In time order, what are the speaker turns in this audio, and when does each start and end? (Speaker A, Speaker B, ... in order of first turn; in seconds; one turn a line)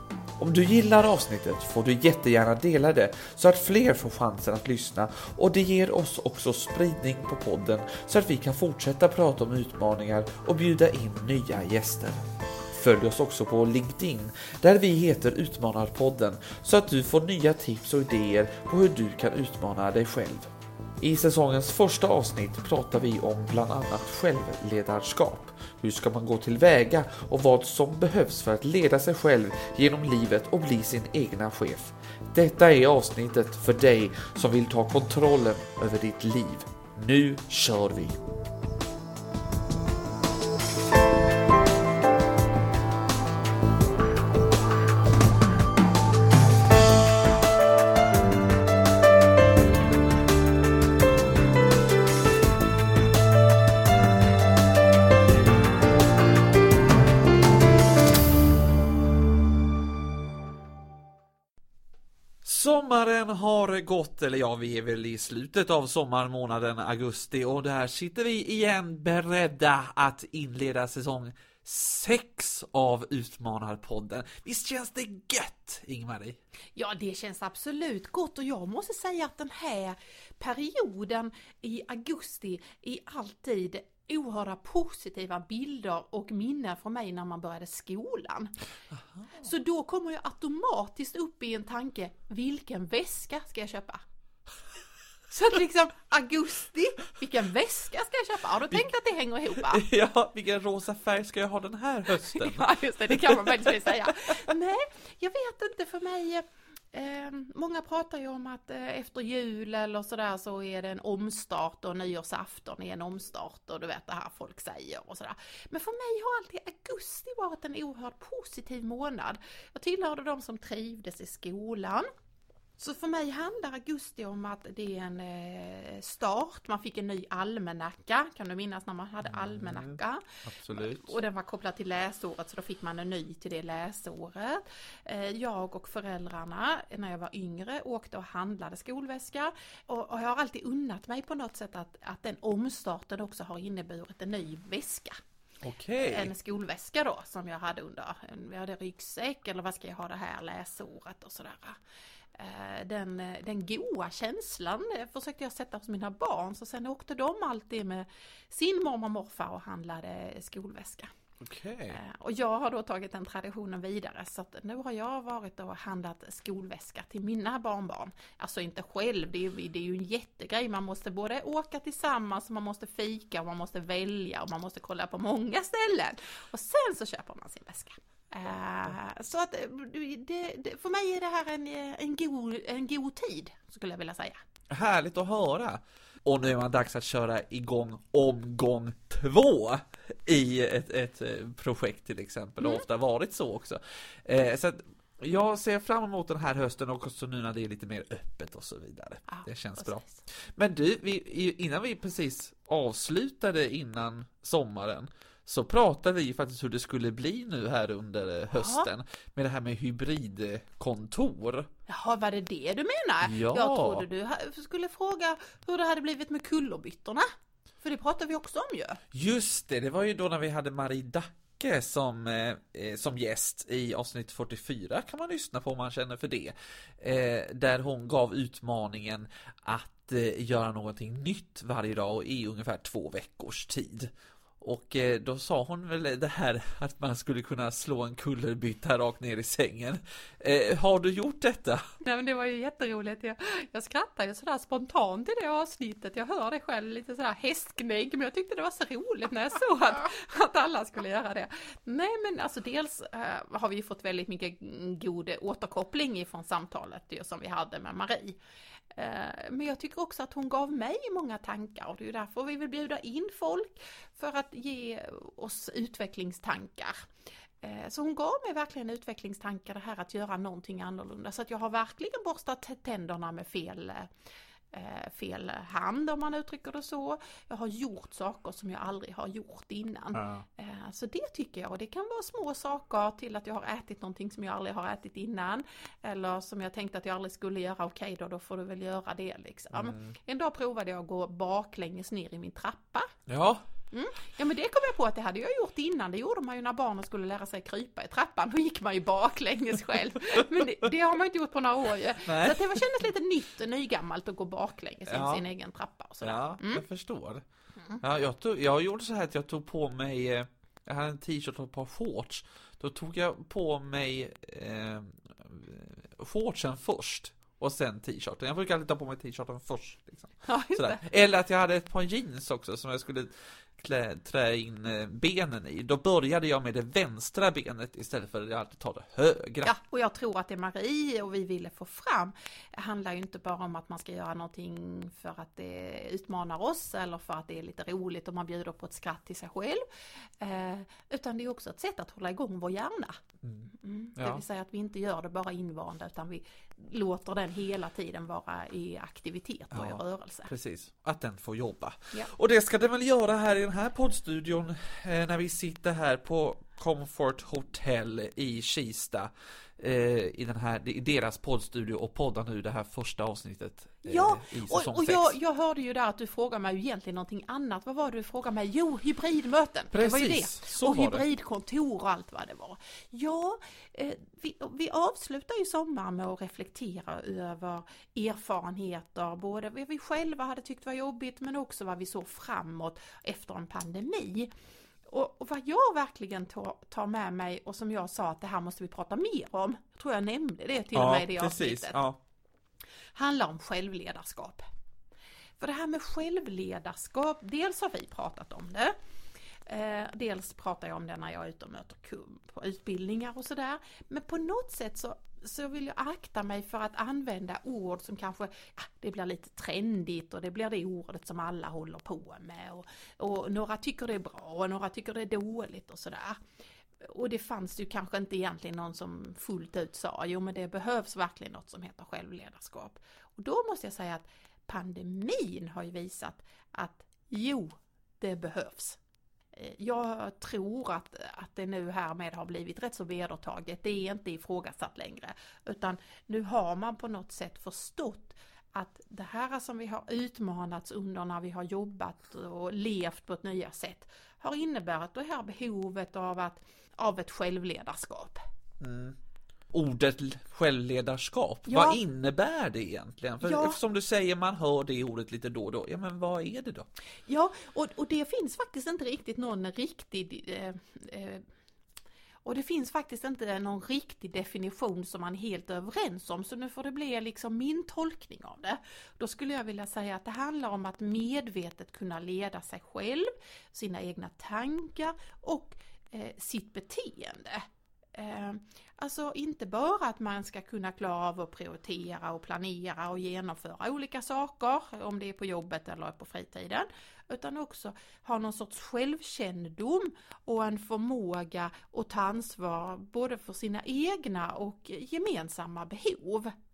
Speaker A: 0.4-38.2
Speaker A: 62.4-76.4
Speaker B: 76.8-88.6
Speaker B: 89.3-94.0
Speaker B: 95.3-99.8
Speaker A: 99.6-104.1
Speaker B: 102.2-122.1
Speaker B: 122.8-145.2
Speaker A: 129.2-131.2
Speaker A: 145.6-146.3
Speaker B: 146.0-151.8
Speaker B: 152.3-161.1
Speaker A: 161.4-162.0
Speaker B: 161.9-184.4
Speaker A: 184.7-211.7
Speaker B: 199.3-200.2
Speaker B: 208.5-208.9
Speaker B: 211.9-217.3
Speaker A: 213.2-214.1
Speaker B: 217.8-219.0
Speaker A: 219.1-241.9
Speaker B: 242.0-258.4
Speaker B: 258.9-267.1
Speaker B: 267.6-274.1
Speaker B: 274.7-293.1
Speaker A: 289.7-290.1
Speaker A: 293.3-293.6
Speaker B: 293.9-306.8
Speaker A: 302.2-302.9
Speaker A: 305.1-305.4
Speaker A: 306.2-307.4
Speaker A: 308.0-329.7
Speaker B: 320.4-321.0
Speaker B: 329.6-339.8
Speaker B: 340.4-343.2
Speaker A: 343.4-344.4
Speaker B: 343.7-350.5
Speaker A: 349.7-365.4
Speaker B: 364.0-384.5
Speaker A: 369.9-371.2
Speaker B: 385.1-392.0
Speaker A: 390.9-392.2
Speaker B: 393.1-394.6
Speaker B: 395.6-399.0
Speaker B: 399.7-416.4
Speaker B: 417.0-429.0
Speaker B: 429.5-448.4
Speaker A: 448.8-449.2
Speaker A: 449.7-456.9
Speaker B: 451.7-452.0
Speaker B: 453.4-453.8
Speaker B: 457.3-461.4
Speaker B: 462.4-496.5